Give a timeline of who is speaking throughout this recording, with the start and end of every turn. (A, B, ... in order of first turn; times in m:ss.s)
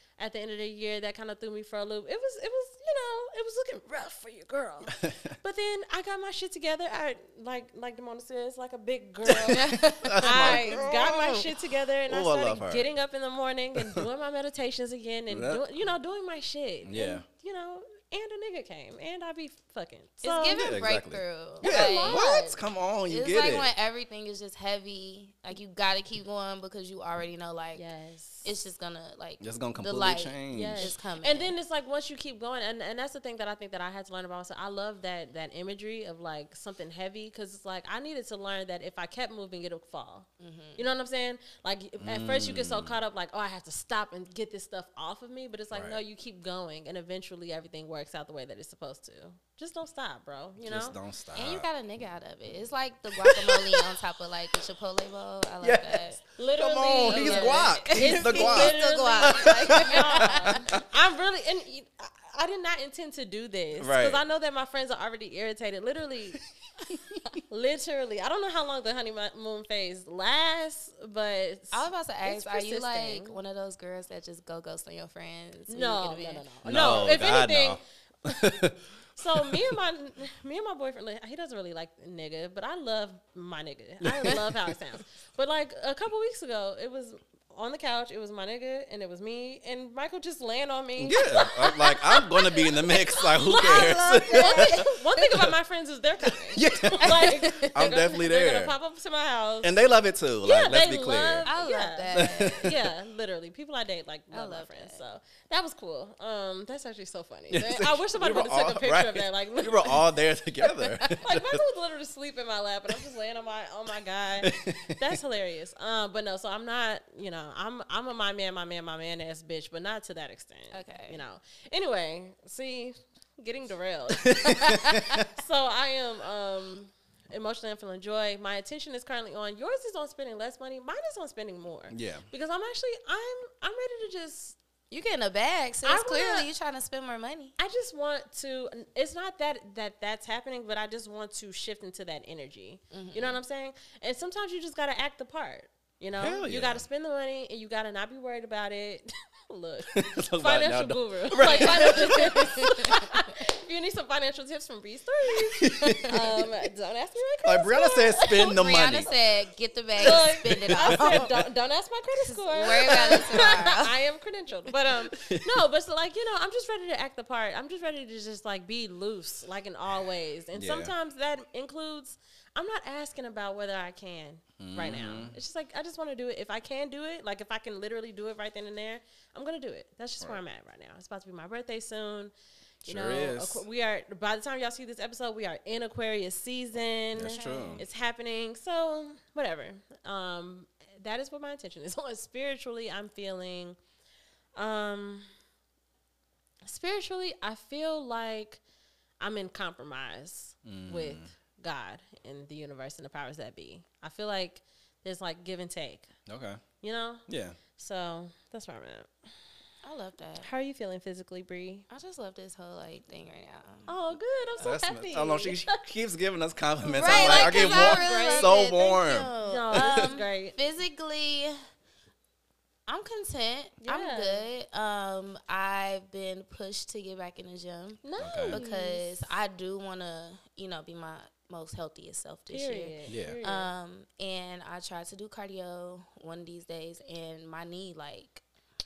0:00.2-0:20.8 A
0:04.9-0:05.3 B
0:09.3-0:11.5 B
0:09.6-0:10.9 C
0:12.1-0:12.9 B
0:13.8-0:14.0 B
0:15.3-0:15.6 B
0:16.8-0:17.3 B
0:20.2-0:22.4 C
0:20.6-0:23.7 B
0:21.6-0:22.6 A
0:23.1-0:27.9 C
0:27.7-0:28.6 A
0:28.4-0:31.5 C
0:29.4-0:30.9 B
0:30.5-0:51.0 A
0:40.4-0:40.8 C
0:42.0-0:43.0 B
0:45.7-0:46.0 B
0:50.6-0:51.7 B
0:51.4-0:56.2 C
0:53.2-0:53.7 B
0:55.6-1:00.8 B
0:56.4-1:06.4 A
0:57.0-1:00.5 C
1:03.8-1:04.2 B
1:07.0-1:07.3 B
1:07.5-1:13.4 A
1:11.7-1:16.5 C
1:15.7-1:18.7 A
1:16.6-1:19.8 B
1:19.2-1:39.8 A
1:24.0-1:24.7 B
1:31.0-1:34.9 B
1:33.5-1:35.0 C
1:36.5-1:38.7 B
1:37.1-1:37.6 C
1:39.6-1:41.5 B
1:40.4-1:50.0 A
1:41.4-1:42.7 C
1:42.1-1:42.8 B
1:44.3-1:45.0 C
1:47.5-1:51.6 B
1:51.2-2:14.6 A
1:54.4-1:55.2 B
2:00.7-2:01.2 C
2:04.2-2:05.3 B
2:04.6-2:05.0 C
2:11.9-2:12.3 B
2:14.9-2:17.6 C
2:15.8-2:16.5 A
2:17.6-2:38.6 A
2:22.9-2:23.4 C
2:26.1-2:26.9 B
2:29.9-2:33.0 B
2:31.4-2:32.9 C
2:35.4-2:36.5 B
2:37.4-2:39.1 B
2:38.3-2:41.3 C
2:40.0-3:02.3 A
2:40.2-2:41.4 B
2:42.2-2:43.9 C
2:45.1-2:45.6 B
2:50.5-2:50.9 B
2:54.6-2:55.4 B
3:02.8-3:03.6 B
3:02.8-3:13.8 A
3:07.2-3:07.8 B
3:07.2-3:07.8 C
3:14.6-3:15.3 A
3:16.6-3:18.6 A
3:19.2-3:26.1 A
3:20.6-3:21.3 B
3:26.3-3:26.6 B
3:26.8-3:27.2 A
3:27.3-3:27.6 B
3:27.8-3:29.1 A
3:29.8-3:30.5 C
3:30.4-3:31.8 A
3:31.9-3:33.9 C
3:33.9-3:35.7 A
3:34.6-3:40.1 B
3:36.8-3:38.6 A
3:37.0-3:41.6 C
3:39.4-3:40.6 A
3:42.9-3:58.4 C
3:43.8-3:44.4 A
3:48.0-3:49.4 A
3:48.2-3:48.6 B
3:52.5-3:53.7 A
3:53.1-3:53.4 B